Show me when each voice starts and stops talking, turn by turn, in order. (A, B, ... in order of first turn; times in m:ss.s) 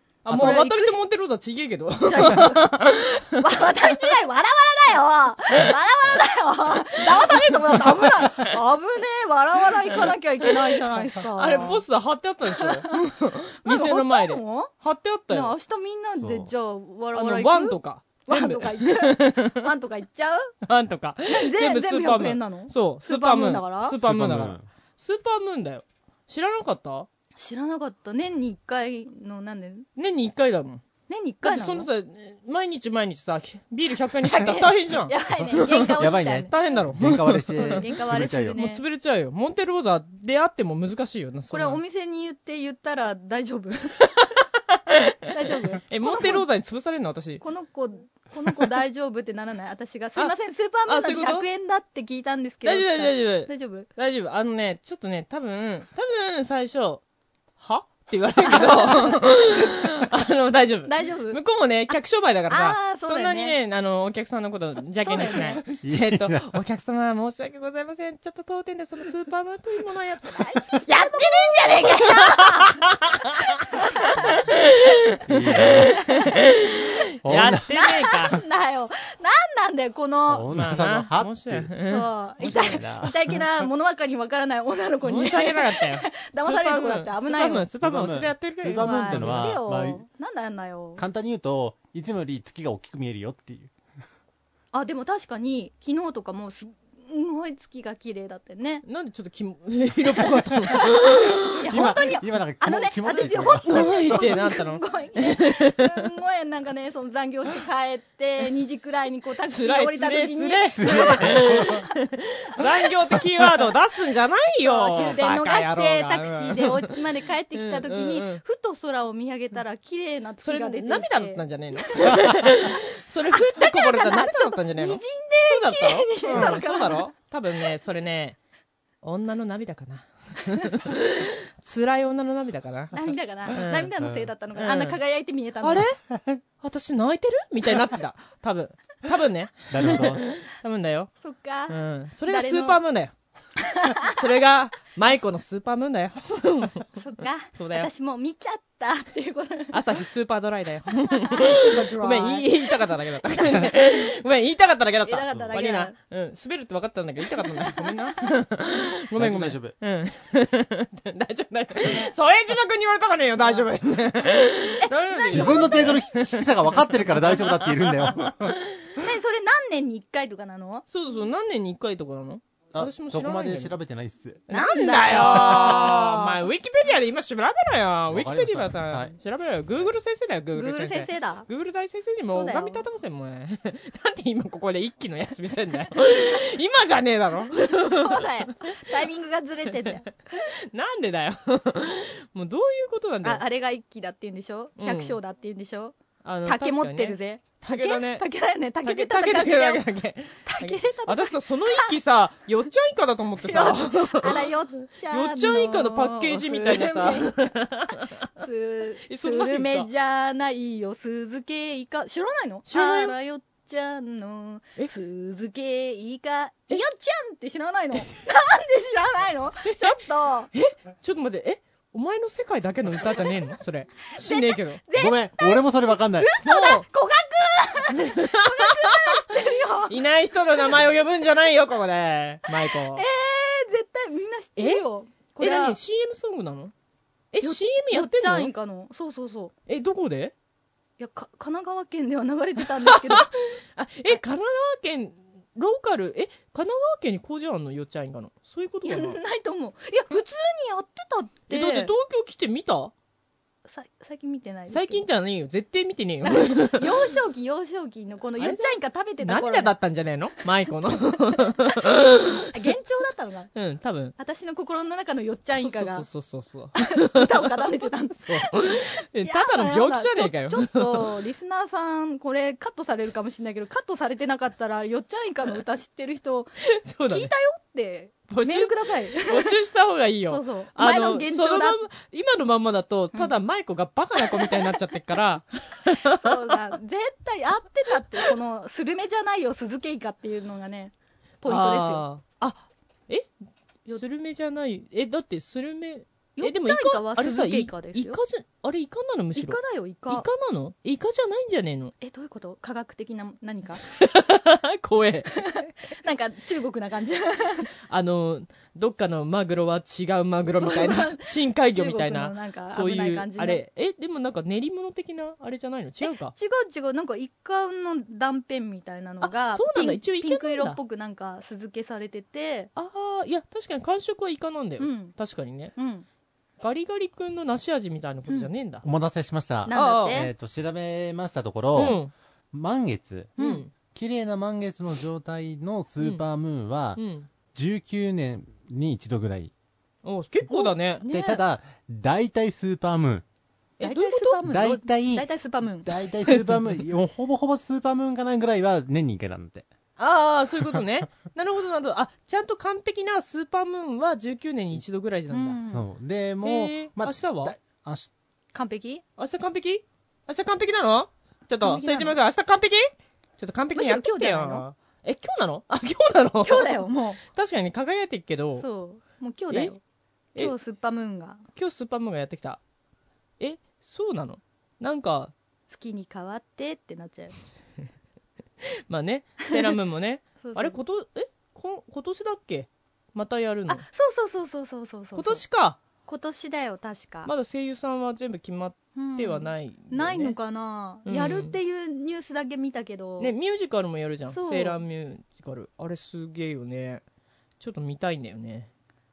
0:00.2-0:03.5 A
0:00.3-0:01.0 B
0:02.0-0:11.8 B
0:11.3-0:15.5 A
0:12.5-0:13.0 B
0:13.6-0:14.7 B
0:15.3-0:20.5 B
0:16.2-0:16.5 C
0:17.1-0:19.7 A
0:20.6-0:27.1 A
0:21.3-0:24.0 B
0:24.0-0:24.6 C
0:27.4-0:29.9 B
0:30.0-0:30.8 A
0:31.1-0:31.9 B
0:31.4-0:36.0 A
0:34.2-0:36.8 B
0:36.0-0:38.6 C
0:36.5-0:41.8 A
0:37.5-0:38.8 B
0:41.5-0:44.0 B
0:44.0-0:45.3 A
0:45.3-0:46.4 B
0:45.9-0:47.4 A
0:47.4-0:53.9 B
0:50.9-0:51.4 A
0:52.6-0:57.0 A
0:57.6-1:18.4 A
0:58.4-0:59.9 B
1:00.8-1:02.0 B
1:02.5-1:03.6 B
1:05.0-1:05.6 B
1:05.6-1:06.5 C
1:10.4-1:12.7 B
1:13.7-1:14.4 B
1:15.2-1:16.0 C
1:15.4-1:16.4 B
1:17.2-1:17.7 C
1:17.7-1:20.5 B
1:20.3-1:21.7 C
1:20.5-1:22.7 A
1:21.8-1:27.7 B
1:22.4-1:23.4 C
1:25.0-1:29.5 A
1:27.8-1:30.0 C
1:28.8-1:31.0 B
1:31.0-1:33.7 C
1:34.7-1:38.8 B
1:38.8-1:41.6 A
1:40.7-1:51.9 B
1:41.7-1:44.2 C
1:43.6-1:46.0 A
1:49.5-1:57.0 A
1:50.8-1:51.9 C
1:54.6-2:07.1 B
1:57.5-1:58.4 A
2:00.4-2:08.4 A
2:09.0-2:13.9 A
2:12.9-2:15.8 B
2:14.0-2:14.2 C
2:14.6-2:15.0 A
2:15.6-2:16.0 A
2:16.1-2:16.4 C
2:16.6-2:21.1 A
2:19.7-2:20.2 C
2:21.2-2:22.8 B
2:21.7-2:23.1 A
2:23.6-2:24.2 B
2:24.0-2:26.9 A
2:27.0-2:30.0 B
2:27.6-2:27.9 A
2:29.7-2:48.9 A
2:31.0-2:32.8 B
2:33.3-2:34.1 B
2:35.0-2:36.0 B
2:37.3-2:38.3 B
2:39.1-2:39.8 C
2:41.8-2:42.1 B
2:44.8-2:46.0 B
2:45.3-2:48.6 C
2:49.0-2:50.9 B
2:50.9-2:53.7 A
2:52.7-2:54.5 C
2:54.5-3:08.8 A
2:54.5-2:56.4 B
2:58.1-2:59.1 C
3:00.5-3:01.5 B
3:02.3-3:02.8 B
3:07.7-3:10.5 B
3:09.8-3:13.4 A
3:13.2-3:19.8 B
3:14.8-3:15.2 A
3:16.2-3:18.2 A
3:18.8-3:24.5 A
3:20.4-3:22.0 B
3:23.4-3:27.4 B
3:25.1-3:28.3 A
3:28.4-3:40.5 B
3:29.1-3:29.9 A
3:32.7-3:33.1 A
3:40.5-3:44.8 A
3:44.1-3:45.7 B
3:45.0-3:46.3 C
3:46.2-3:50.0 B
3:46.4-3:46.8 A
3:48.0-3:49.3 A
3:49.9-3:53.0 A
3:52.9-3:55.8 B
3:54.6-3:54.8 A
3:55.4-3:56.7 A
3:57.3-3:58.5 A
3:57.4-3:59.5 B
3:59.7-4:00.3 A
4:01.0-4:03.3 B
4:02.8-4:09.2 A
4:08.8-4:11.9 B
4:11.5-4:12.9 A
4:13.6-4:15.0 B
4:14.7-4:17.1 A
4:16.2-4:19.7 B
4:18.4-4:22.7 A
4:21.1-4:21.8 B
4:22.5-4:23.5 B
4:23.5-4:24.1 A
4:24.2-4:26.1 B
4:25.6-4:27.6 A
4:26.8-4:36.6 B
4:28.2-4:31.2 A
4:36.7-4:37.3 A
4:37.1-4:39.6 B
4:38.3-4:46.6 A
4:40.3-4:41.8 B
4:44.2-4:44.7 B
4:46.0-4:52.0 B
4:51.4-4:53.3 A
4:53.8-5:01.9 A
4:56.4-4:58.2 B
4:59.3-5:00.3 B
5:02.0-5:03.8 B
5:03.8-5:05.4 A
5:05.3-5:07.7 B
5:07.9-5:16.3 A
5:10.6-5:13.6 B
5:16.0-5:22.7 B
5:19.2-5:20.8 A
5:22.8-5:25.7 A
5:24.8-5:25.1 B
5:25.8-5:26.0 B
5:26.6-5:28.8 A
5:28.8-5:32.0 C
5:29.7-5:30.3 B
5:29.7-5:30.2 A
5:31.7-5:32.1 A
5:32.5-5:33.4 C
5:33.4-5:33.6 B
5:33.4-5:33.7 A
5:33.9-5:37.0 C
5:37.0-5:37.3 A
5:37.5-5:39.5 C
5:40.0-5:41.0 A
5:40.5-5:41.4 B
5:41.1-5:43.2 C
5:43.8-5:44.4 A
5:43.8-5:45.9 B
5:44.4-5:45.3 C
5:45.8-5:49.7 C
5:50.0-5:55.6 A
5:55.3-5:55.8 B
5:55.7-5:58.1 C
5:56.4-5:57.5 A
5:58.5-5:59.0 B
5:59.2-6:08.6 A
6:01.6-6:02.2 B
6:03.7-6:04.6 B
6:06.4-6:07.2 B
6:08.6-6:09.8 B
6:10.4-6:11.4 B
6:11.5-6:12.6 A
6:13.4-6:15.3 A
6:15.7-6:17.4 B
6:18.6-6:23.8 A
6:20.4-6:20.8 B
6:23.7-6:25.4 B
6:25.1-6:25.8 A
6:26.0-6:27.3 B
6:27.2-6:30.4 A
6:29.0-6:33.3 B
6:31.0-6:31.6 A
6:33.2-6:37.0 A
6:34.3-6:34.8 B
6:37.6-6:38.7 A